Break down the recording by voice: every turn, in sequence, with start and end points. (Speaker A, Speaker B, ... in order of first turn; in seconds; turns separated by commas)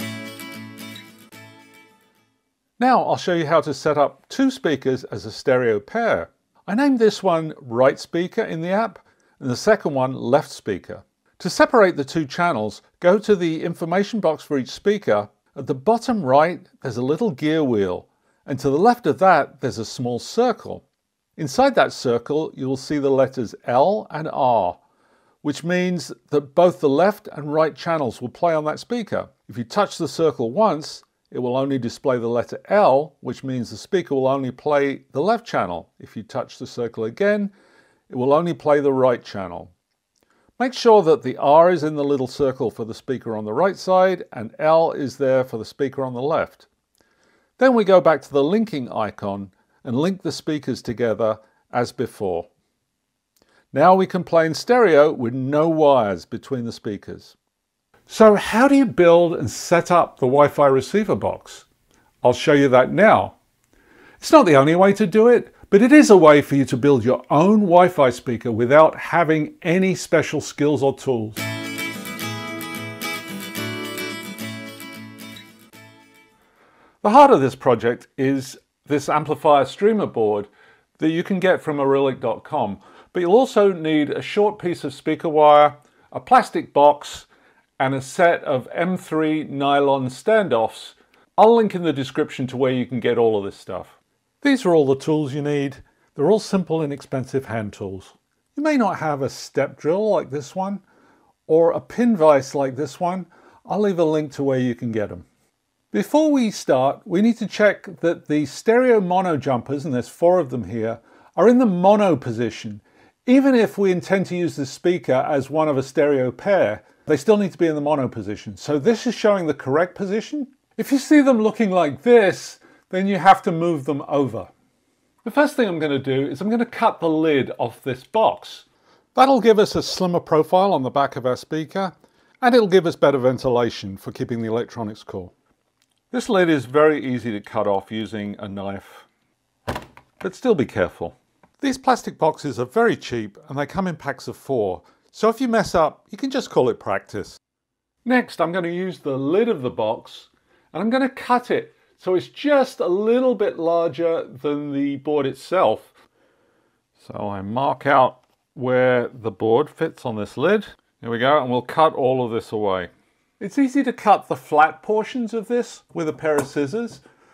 Speaker A: 2.8-20.9, Speaker A: 21.4-24.8, Speaker A: 25.4-37.5, Speaker A: 38.1-39.7, Speaker A: 40.6-46.7, Speaker A: 47.6-52.5, Speaker A: 53.7-57.4, Speaker A: 58.1-61.7, Speaker A: 62.2-63.4, Speaker A: 64.2-71.4, Speaker A: 77.0-87.3, Speaker A: 87.8-100.8, Speaker A: 101.5-105.3, Speaker A: 105.9-124.5, Speaker A: 125.2-135.3, Speaker A: 136.1-139.1, Speaker A: 140.2-147.4, Speaker A: 148.0-155.9, Speaker A: 157.0-167.0